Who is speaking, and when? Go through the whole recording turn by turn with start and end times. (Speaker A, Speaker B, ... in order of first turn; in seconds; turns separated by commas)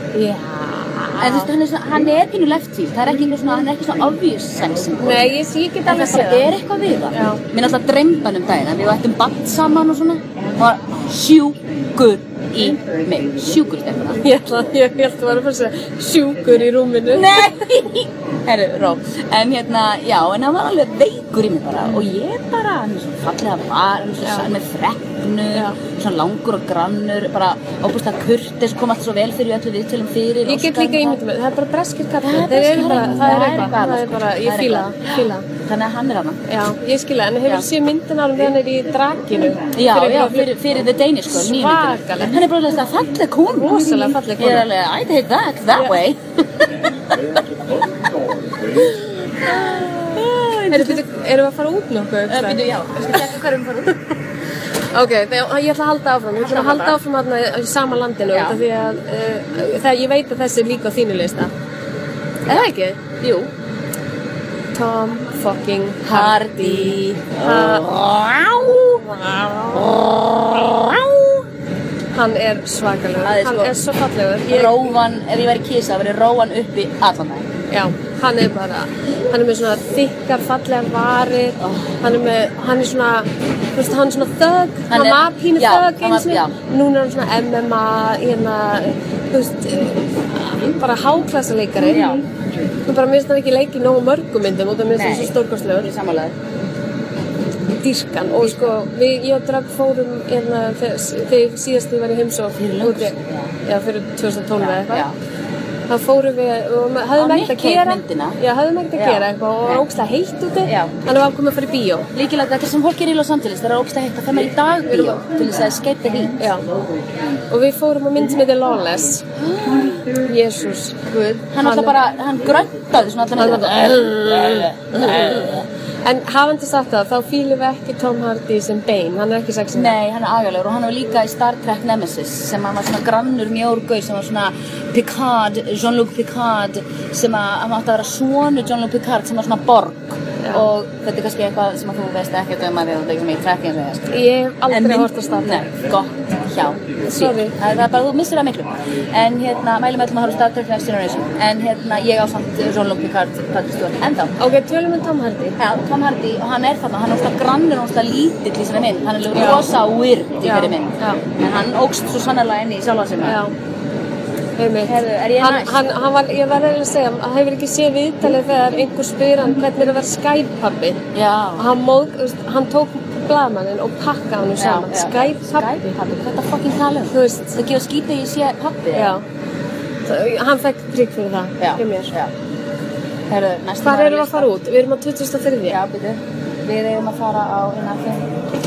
Speaker A: 0.1-1.5, Speaker B: 1.2-14.2, Speaker A: 5.0-6.5, Speaker A: 7.1-7.4, Speaker A: 14.2-17.6, Speaker B: 17.1-31.2, Speaker A: 30.4-35.5, Speaker B: 32.2-36.4, Speaker A: 36.5-40.5, Speaker B: 39.7-46.2, Speaker A: 41.3-42.4, Speaker A: 43.5-44.7, Speaker B: 46.9-47.4, Speaker B: 48.8-51.0, Speaker A: 49.4-52.6, Speaker B: 52.3-54.0, Speaker A: 54.9-61.5, Speaker B: 56.4-57.0, Speaker B: 58.3-58.6, Speaker A: 62.5-63.0, Speaker B: 63.2-63.5, Speaker A: 64.7-67.9, Speaker B: 66.0-71.5, Speaker A: 72.2-74.9, Speaker B: 73.2-73.8, Speaker B: 74.4-77.5, Speaker A: 77.7-92.2, Speaker B: 81.6-82.0, Speaker B: 84.9-86.5, Speaker B: 91.8-92.3, Speaker A: 92.9-95.9, Speaker B: 94.9-96.3, Speaker A: 97.8-105.1, Speaker B: 98.4-98.7, Speaker B: 102.6-103.5, Speaker B: 104.6-105.1, Speaker A: 105.9-112.1, Speaker B: 107.2-108.4, Speaker B: 108.9-109.9, Speaker B: 110.7-111.0, Speaker B: 112.1-116.5, Speaker A: 116.4-116.7, Speaker A: 117.5-119.2, Speaker B: 119.3-120.3, Speaker A: 120.2-122.0, Speaker B: 121.1-125.7, Speaker A: 123.4-130.0, Speaker B: 129.7-154.3, Speaker A: 140.4-140.7, Speaker A: 144.1-145.7, Speaker A: 147.1-147.6, Speaker A: 154.4-155.6, Speaker B: 155.6-163.5, Speaker A: 159.3-159.7, Speaker A: 160.4-161.2, Speaker A: 163.2-163.5, Speaker A: 164.6-171.0, Speaker B: 164.8-165.8, Speaker B: 171.1-171.7, Speaker A: 171.6-175.9, Speaker B: 174.6-179.2, Speaker A: 177.1-177.5, Speaker A: 178.9-179.2, Speaker A: 180.1-182.1, Speaker B: 181.6-182.3, Speaker B: 183.3-184.5, Speaker A: 183.8-185.8, Speaker B: 185.7-188.3